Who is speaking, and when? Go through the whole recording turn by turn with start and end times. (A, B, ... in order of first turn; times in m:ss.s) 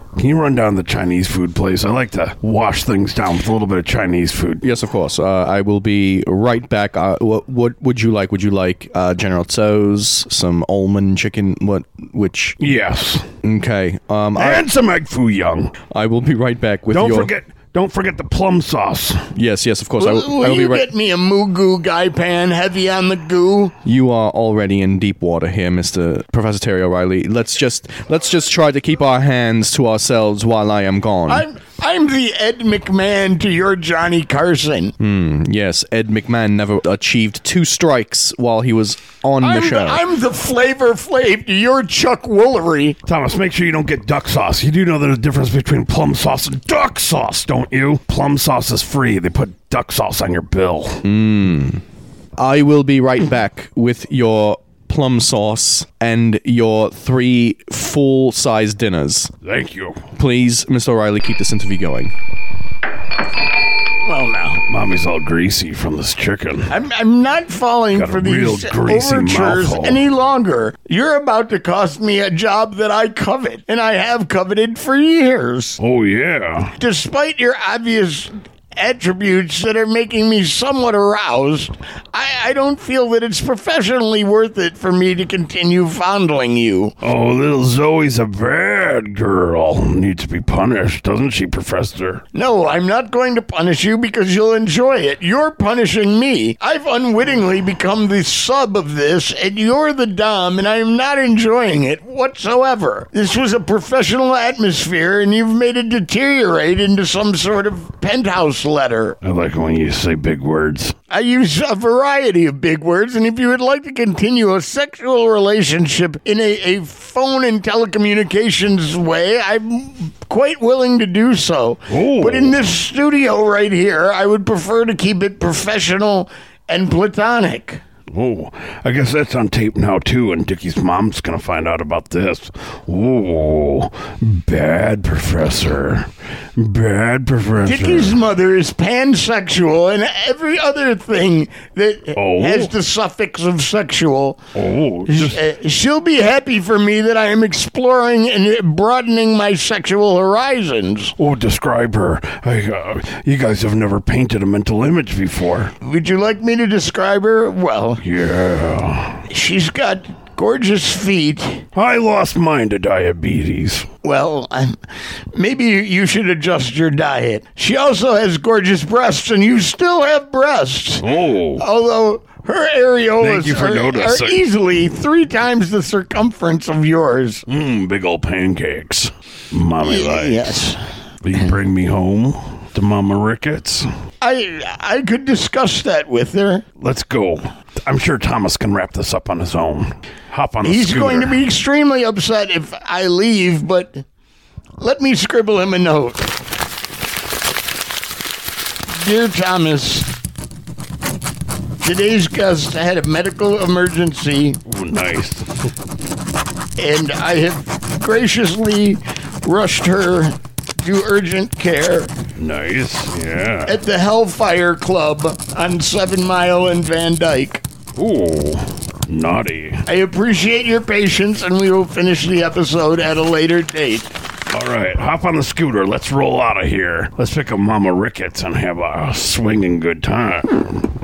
0:00.2-0:04.6 A
0:04.6-0:12.6 B
0:12.6-0:13.3 A
0:13.4-0:14.7 B
0:14.4-0:15.8 A
0:15.9-0:17.3 B
0:16.9-0:19.3 A
0:19.3-0:20.9 B
0:20.0-0:23.7 C
0:23.8-0:31.5 B
0:31.3-0:35.0 C
0:35.0-0:40.0 B
0:39.4-0:43.0 C
0:43.1-0:51.0 A
0:51.0-0:51.8 B
0:52.4-0:59.3 B
0:59.4-1:00.0 A
1:00.2-1:02.1 B
1:04.0-1:04.6 C
1:04.7-1:06.7 A
1:06.7-1:15.8 C
1:07.9-1:10.0 A
1:15.8-1:16.7 A
1:16.8-1:27.0 C
1:27.0-1:32.2 A
1:32.3-1:49.2 C
1:49.2-1:51.0 A
1:51.1-2:07.8 C
2:01.9-2:02.6 A
2:08.1-2:18.2 A
2:17.6-2:24.4 C
2:22.2-2:22.7 A
2:24.6-2:25.4 A
2:25.1-2:31.1 C
2:31.2-2:35.7 A
2:35.8-2:38.0 C
2:38.0-2:39.2 A
2:39.3-2:41.6 C
2:41.8-2:43.9 A
2:44.0-2:44.8 C
2:45.3-2:51.1 C
2:51.0-2:51.6 A
2:51.6-2:57.4 C
2:53.2-2:54.4 A
2:57.5-3:00.7 A
2:59.8-3:00.8 C
3:01.2-3:03.9 A
3:04.2-3:06.6 C
3:06.8-3:11.4 A
3:10.6-3:14.0 C
3:14.8-3:16.3 C
3:18.9-3:20.1 C
3:21.8-3:24.6 C
3:24.7-3:25.5 A
3:26.8-3:32.1 C
3:32.4-3:33.7 A
3:33.7-3:37.6 C
3:38.0-3:39.8 A
3:39.9-3:44.1 C
3:44.5-3:50.8 A